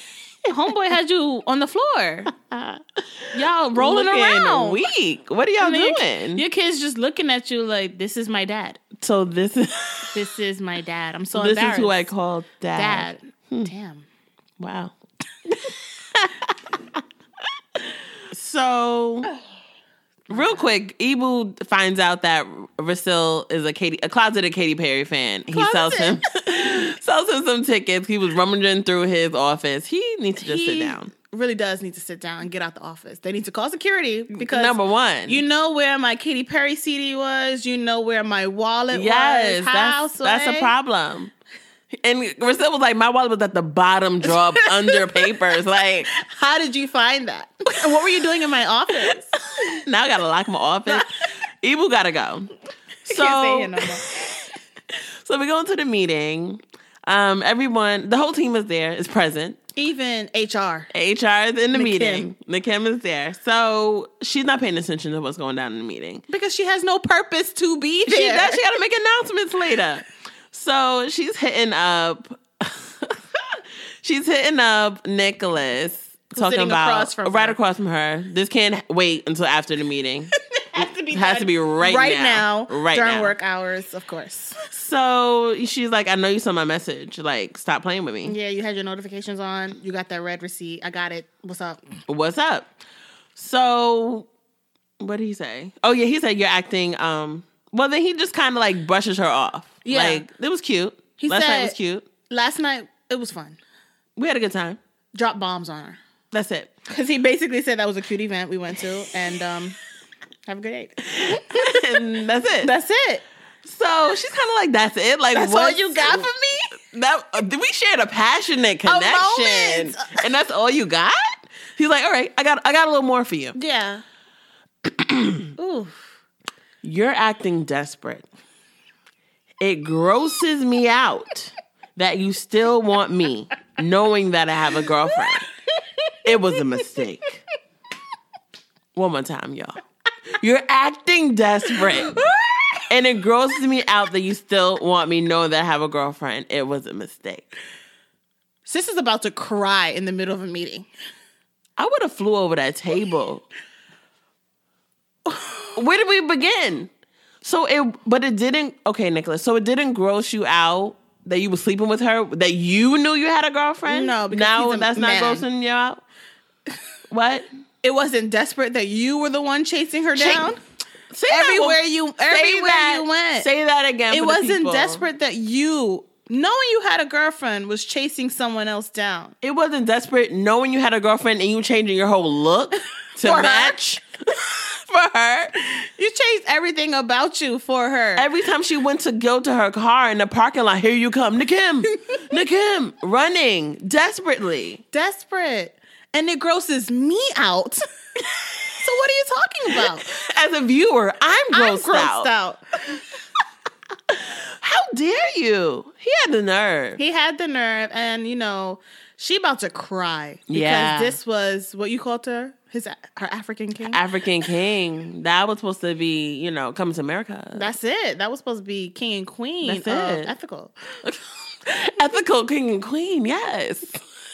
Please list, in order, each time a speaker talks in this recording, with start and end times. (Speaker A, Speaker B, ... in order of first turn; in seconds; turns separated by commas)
Speaker A: 0.5-2.3, Speaker B: 2.5-2.8, Speaker A: 3.3-4.8, Speaker B: 3.8-6.4, Speaker A: 5.6-8.8, Speaker B: 9.0-10.2, Speaker A: 10.1-12.1, Speaker B: 11.3-13.7, Speaker A: 12.7-14.0, Speaker B: 14.6-14.9, Speaker B: 15.5-16.5, Speaker B: 18.3-19.3, Speaker B: 20.3-31.1, Speaker A: 20.3-20.6, Speaker A: 25.5-26.2, Speaker A: 30.4-40.7, Speaker B: 34.3-35.4, Speaker B: 38.9-41.3, Speaker B: 42.0-46.1, Speaker A: 44.5-45.4, Speaker A: 46.1-49.3, Speaker B: 49.6-51.1, Speaker B: 51.6-52.5, Speaker A: 53.1-54.1, Speaker B: 53.1-59.6, Speaker A: 59.8-60.9, Speaker B: 60.9-66.2, Speaker A: 61.7-62.3, Speaker A: 66.3-68.6, Speaker B: 68.1-80.3, Speaker A: 76.3-77.6, Speaker A: 80.7-84.6, Speaker B: 81.1-83.3, Speaker B: 84.7-88.3, Speaker A: 88.2-91.8, Speaker B: 92.1-92.7, Speaker B: 93.3-94.3, Speaker B: 95.0-102.0, Speaker A: 99.8-100.2, Speaker A: 101.2-101.8, Speaker A: 102.3-103.6, Speaker B: 104.2-104.8, Speaker A: 105.1-106.0, Speaker B: 106.3-106.7, Speaker A: 106.9-109.8, Speaker A: 110.5-112.0, Speaker B: 111.2-112.7, Speaker A: 112.6-113.2, Speaker B: 113.6-116.3, Speaker A: 115.3-116.7, Speaker B: 116.9-123.6, Speaker A: 118.8-120.2, Speaker A: 123.5-124.0, Speaker B: 124.9-125.5, Speaker A: 125.6-126.0, Speaker B: 126.8-128.2, Speaker B: 129.6-135.5, Speaker B: 136.2-137.4, Speaker B: 138.9-139.8, Speaker B: 140.4-142.2, Speaker B: 142.9-147.5, Speaker A: 148.7-150.9, Speaker B: 151.8-153.4, Speaker B: 155.8-156.9, Speaker B: 157.4-166.0, Speaker A: 163.9-165.4, Speaker B: 167.1-167.5, Speaker A: 167.8-170.6, Speaker B: 170.1-170.5, Speaker B: 171.1-175.0, Speaker A: 171.3-173.5, Speaker A: 174.1-179.3, Speaker B: 179.4-185.6, Speaker A: 183.2-183.8, Speaker A: 185.9-188.2, Speaker B: 188.2-194.8, Speaker A: 194.9-197.8, Speaker A: 198.8-200.1, Speaker B: 200.0-202.3, Speaker A: 201.5-203.0, Speaker B: 204.1-207.0, Speaker A: 207.0-214.0, Speaker B: 210.5-211.2, Speaker B: 213.9-217.7, Speaker A: 217.5-220.7, Speaker B: 219.6-220.3, Speaker B: 221.0-224.0